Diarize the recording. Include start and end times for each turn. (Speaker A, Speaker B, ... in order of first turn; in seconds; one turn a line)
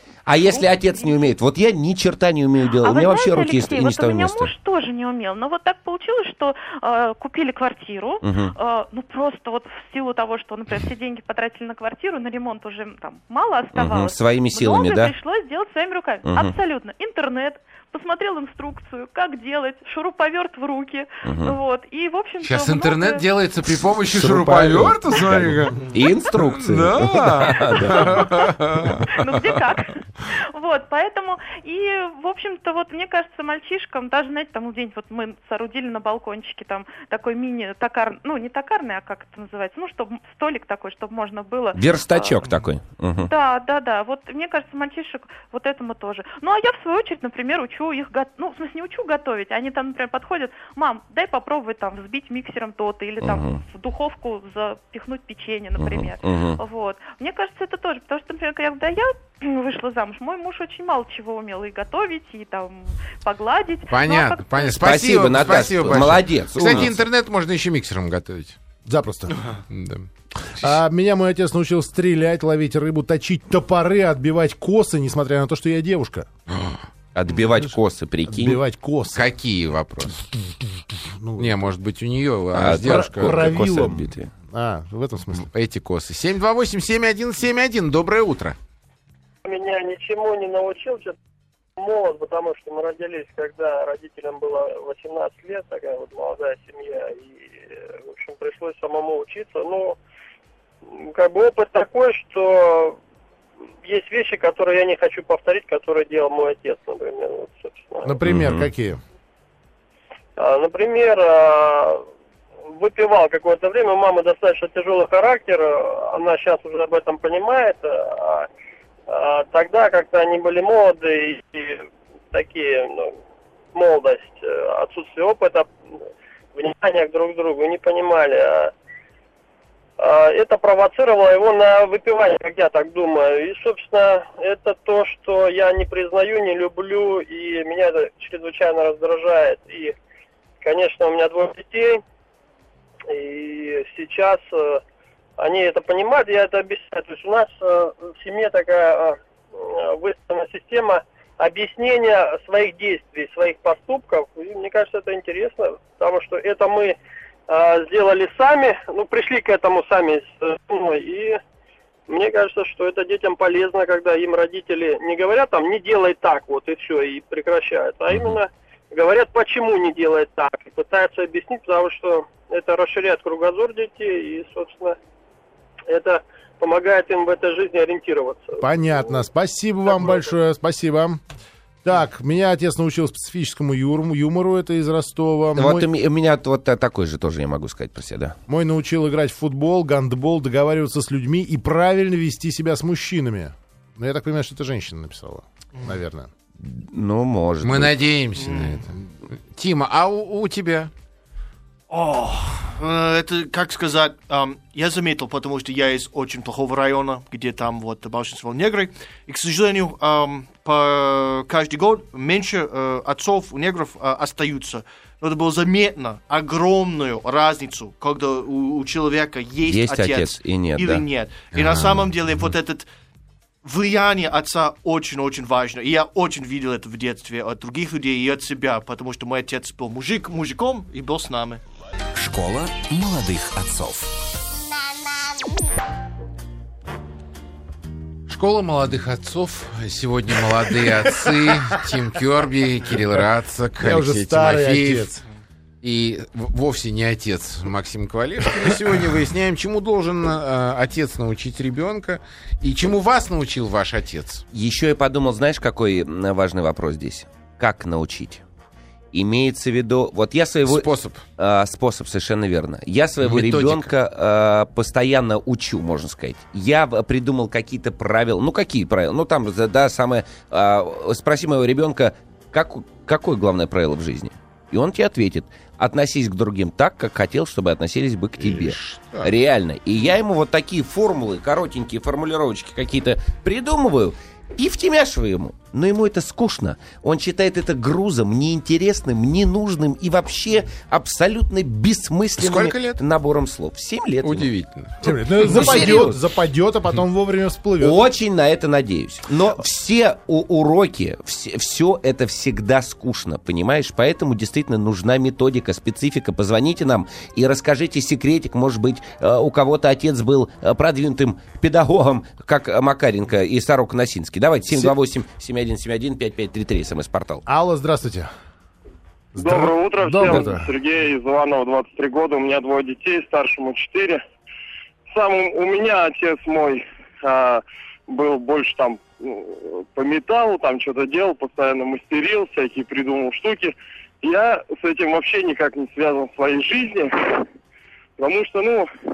Speaker A: 0.3-4.5
Speaker B: 0.3-1.2
Speaker B: 2.8-23.3
Speaker A: 8.2-8.5
Speaker A: 13.8-15.1
Speaker A: 16.2-16.5
Speaker A: 21.3-21.6
Speaker C: 22.4-25.8
Speaker A: 24.1-28.2
Speaker C: 26.4-29.6
Speaker B: 27.7-28.5
Speaker B: 29.1-42.4
Speaker A: 41.8-43.3
Speaker B: 43.2-64.8
Speaker A: 53.2-53.6
Speaker A: 55.8-56.6
Speaker C: 63.9-68.6
Speaker A: 64.8-67.0
Speaker D: 68.9-69.6
Speaker C: 69.7-70.1
Speaker D: 70.6-76.3
Speaker C: 76.5-76.8
Speaker A: 77.1-78.6
Speaker D: 78.3-79.3
Speaker C: 79.1-80.2
Speaker D: 81.2-81.6
Speaker C: 81.4-83.5
Speaker A: 82.5-84.3
Speaker D: 82.7-85.5
Speaker C: 85.5-88.6
Speaker E: 89.5-91.2
Speaker E: 91.8-100.0
Speaker E: 100.9-103.0
Speaker E: 103.8-108.2
Speaker D: 108.0-109.0
Speaker A: 108.3-108.7
Speaker E: 110.4-112.0
Speaker E: 112.7-118.5
Speaker E: 119.1-123.2
Speaker E: 123.7-125.7
Speaker E: 126.5-128.7
Speaker E: 130.0-139.9
Speaker E: 140.6-142.0
Speaker E: 143.1-144.8
Speaker E: 145.4-157.0
Speaker E: 157.5-161.4
Speaker E: 162.1-175.0
Speaker A: 168.1-168.4
Speaker E: 175.9-179.2
Speaker D: 178.6-181.2
Speaker E: 179.9-180.3
Speaker D: 181.8-185.9
Speaker A: 185.6-188.4
Speaker D: 188.5-196.3
Speaker A: 196.6-198.0
Speaker C: 197.6-200.9
Speaker F: 198.4-198.8
Speaker F: 201.9-222.9
Speaker A: 219.7-221.1
Speaker C: 221.5-222.1
Speaker F: 223.6-231.6
Speaker G: 232.2-234.2
Speaker C: 238.3-245.1
Speaker D: 243.8-245.2
Speaker C: 245.8-254.4
Speaker A: 254.5-258.4
Speaker A: 259.1-294.5
Speaker C: 260.7-261.2
Speaker C: 263.2-263.9
Speaker C: 278.4-279.3
Speaker C: 292.4-293.0
Speaker C: 294.2-294.9
Speaker D: 295.0-298.0
Speaker A: 295.4-296.2
Speaker C: 295.6-295.9
Speaker A: 297.8-317.4
Speaker D: 314.7-314.9
Speaker D: 317.5-318.3
Speaker D: 319.4-320.7
Speaker H: 319.4-324.2
Speaker H: 325.1-337.4
Speaker H: 338.2-338.9